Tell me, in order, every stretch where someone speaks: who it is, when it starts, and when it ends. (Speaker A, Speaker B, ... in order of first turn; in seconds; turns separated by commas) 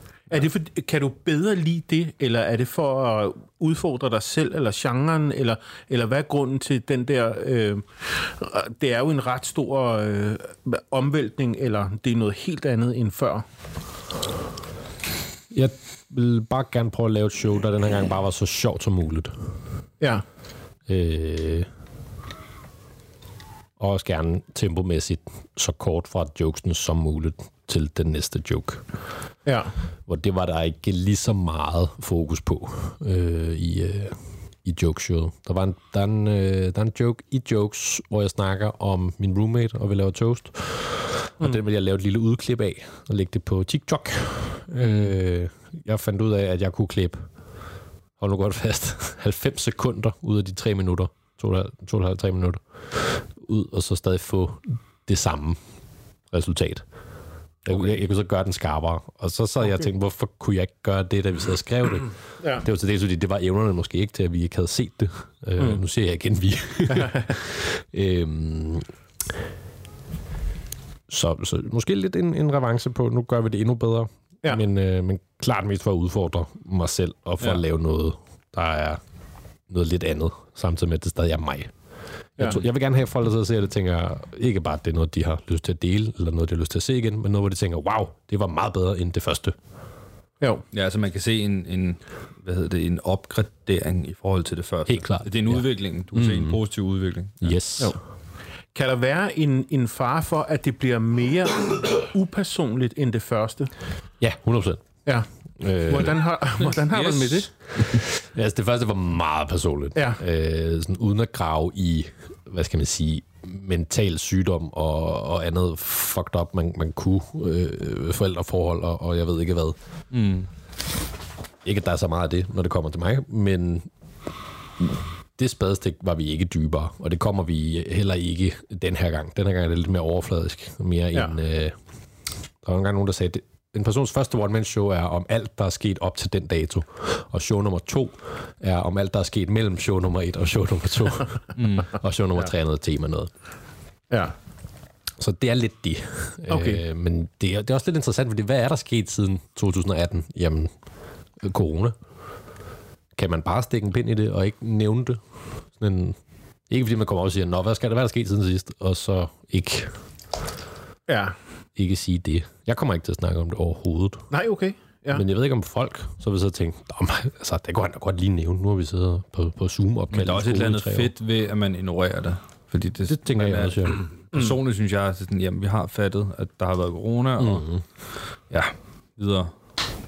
Speaker A: 0.3-13.4, Speaker B: 15.5-19.3, Speaker B: 20.9-21.7, Speaker B: 23.8-28.8, Speaker A: 29.4-29.7, Speaker B: 30.1-47.2, Speaker B: 48.2-55.6, Speaker B: 56.3-56.8, Speaker B: 57.6-68.9, Speaker A: 66.9-67.3, Speaker B: 71.1-79.0, Speaker B: 79.7-81.7, Speaker B: 82.4-89.5, Speaker C: 90.7-97.6, Speaker B: 94.9-96.6, Speaker B: 97.4-98.0, Speaker A: 98.7-103.7, Speaker B: 104.2-104.8, Speaker B: 105.6-106.2, Speaker A: 105.8-107.5, Speaker C: 106.7-108.0, Speaker B: 108.0-119.8, Speaker A: 109.9-110.2, Speaker C: 120.1-120.5, Speaker B: 121.6-123.9, Speaker B: 124.8-131.7, Speaker B: 132.6-143.3, Speaker C: 141.5-141.9, Speaker B: 145.2-150.7, Speaker A: 146.5-146.8, Speaker B: 151.4-151.9, Speaker B: 153.2-155.2, Speaker B: 155.8-156.2, Speaker B: 156.7-159.9, Speaker A: 161.1-161.3, Speaker B: 161.8-164.3, Speaker A: 164.3-165.2, Speaker B: 165.1-171.1, Speaker C: 170.1-177.6, Speaker B: 173.0-174.0, Speaker B: 177.4-177.8, Speaker C: 178.5-179.5